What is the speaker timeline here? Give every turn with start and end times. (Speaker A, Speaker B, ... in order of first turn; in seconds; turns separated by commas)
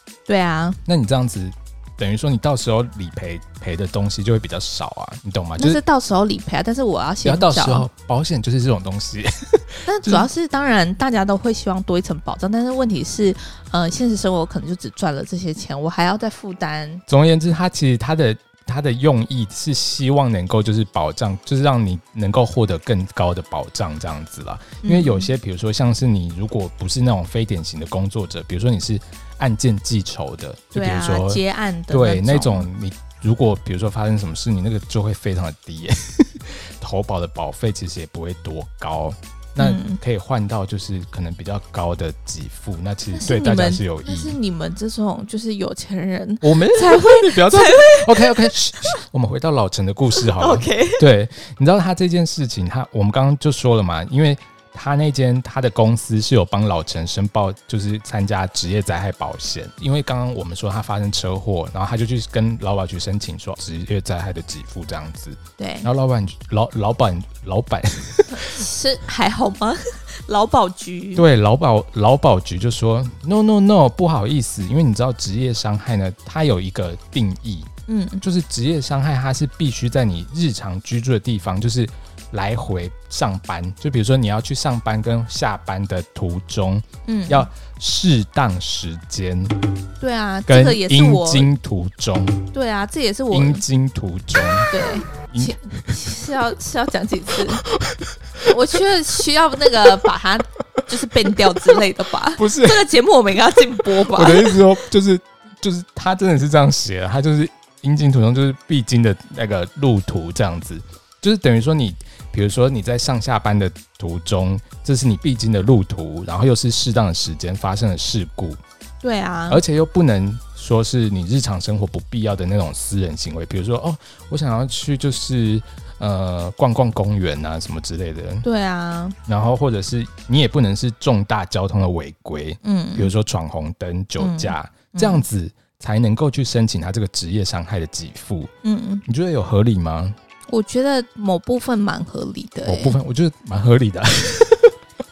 Speaker A: 0.3-0.8, Speaker B: 0.9-5.8, Speaker A: 5.6-7.9, Speaker B: 7.2-10.3, Speaker A: 9.9-17.0, Speaker B: 17.1-31.4, Speaker A: 24.8-25.3, Speaker A: 30.7-32.7, Speaker B: 31.9-44.4, Speaker A: 39.6-40.0, Speaker A: 43.1-48.5, Speaker B: 46.4-68.6, Speaker A: 50.2-51.0, Speaker A: 65.6-65.9, Speaker A: 68.4-71.2, Speaker B: 71.2-77.7, Speaker A: 77.9-78.2, Speaker B: 78.2-89.6, Speaker A: 87.0-87.5, Speaker A: 90.0-91.5, Speaker B: 90.5-92.5, Speaker A: 92.5-93.6, Speaker B: 93.3-95.9, Speaker A: 94.7-97.6, Speaker B: 97.6-98.5, Speaker A: 98.4-104.6, Speaker B: 102.4-102.8, Speaker B: 104.0-118.6, Speaker A: 119.0-119.6, Speaker B: 119.5-128.5, Speaker A: 128.4-129.2, Speaker B: 129.3-138.5, Speaker A: 132.6-133.1, Speaker A: 134.2-135.3, Speaker A: 138.6-139.0, Speaker B: 139.1-140.2, Speaker A: 140.5-143.0, Speaker B: 142.7-144.7